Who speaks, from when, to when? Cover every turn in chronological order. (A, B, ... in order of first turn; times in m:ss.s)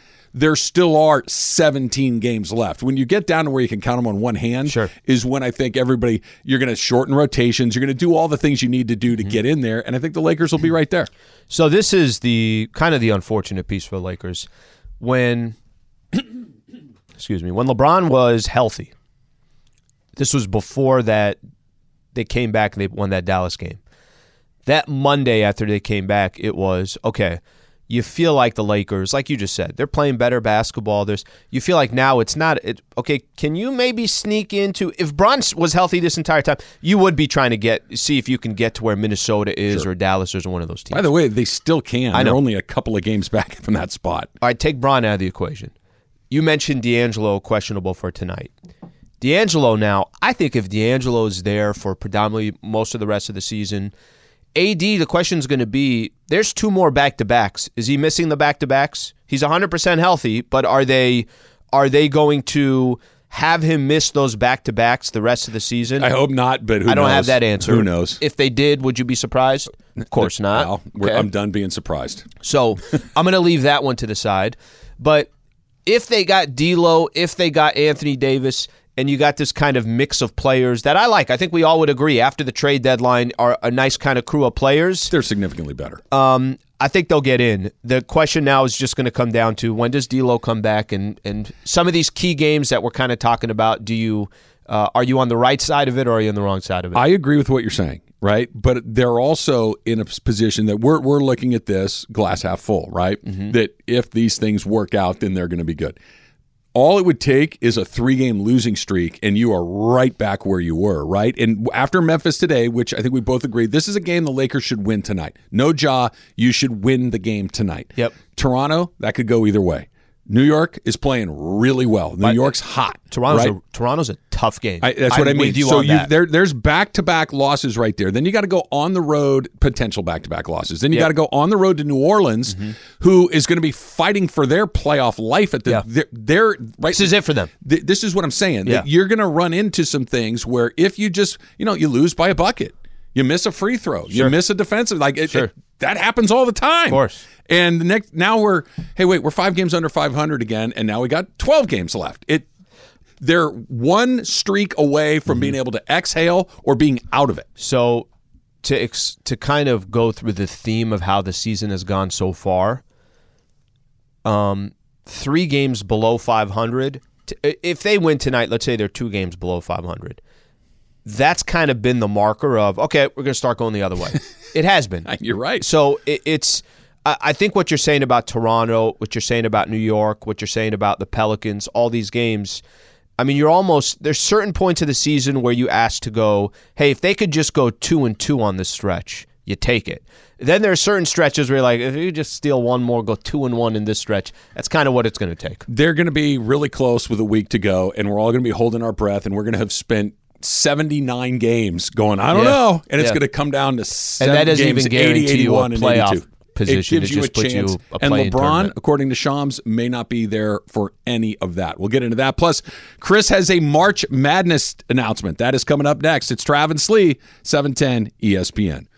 0:00.3-0:11.1 A
0:04.6-0:04.9 B
0:11.5-0:14.5 B
0:15.0-0:15.6 B
0:17.2-0:18.9 B
0:20.2-0:21.4 B
0:22.1-0:23.8 B
0:24.6-0:41.0 B
0:40.9-0:44.3 A
0:42.1-0:42.4 B
0:44.4-0:45.7 B
0:46.3-0:48.5 B
0:49.2-0:53.9 B
0:54.5-1:06.1 B
1:06.0-1:08.2 A
1:06.8-1:11.3 B
1:10.0-1:12.3 A
1:12.4-1:15.3 B
1:15.8-1:25.1 B
1:25.1-1:26.0 A
1:26.1-1:37.0 B
1:36.9-1:46.0 A
1:43.3-1:43.5 B
1:46.7-2:03.5 A
2:02.2-2:02.5 B
2:03.1-2:06.1 B
2:04.8-2:32.4 A
2:16.9-2:17.5 B
2:26.9-2:27.2 B
2:33.2-2:37.5 A
2:35.3-2:35.5 B
2:37.6-2:38.0 B
2:38.6-2:42.8 B
2:44.2-2:50.2 B
2:51.0-2:55.1 B
2:55.1-2:55.6 A
2:55.6-3:02.6 B
3:03.2-3:15.6 B
3:15.7-3:38.8 A
3:22.3-3:23.2 B
3:24.2-3:28.7 B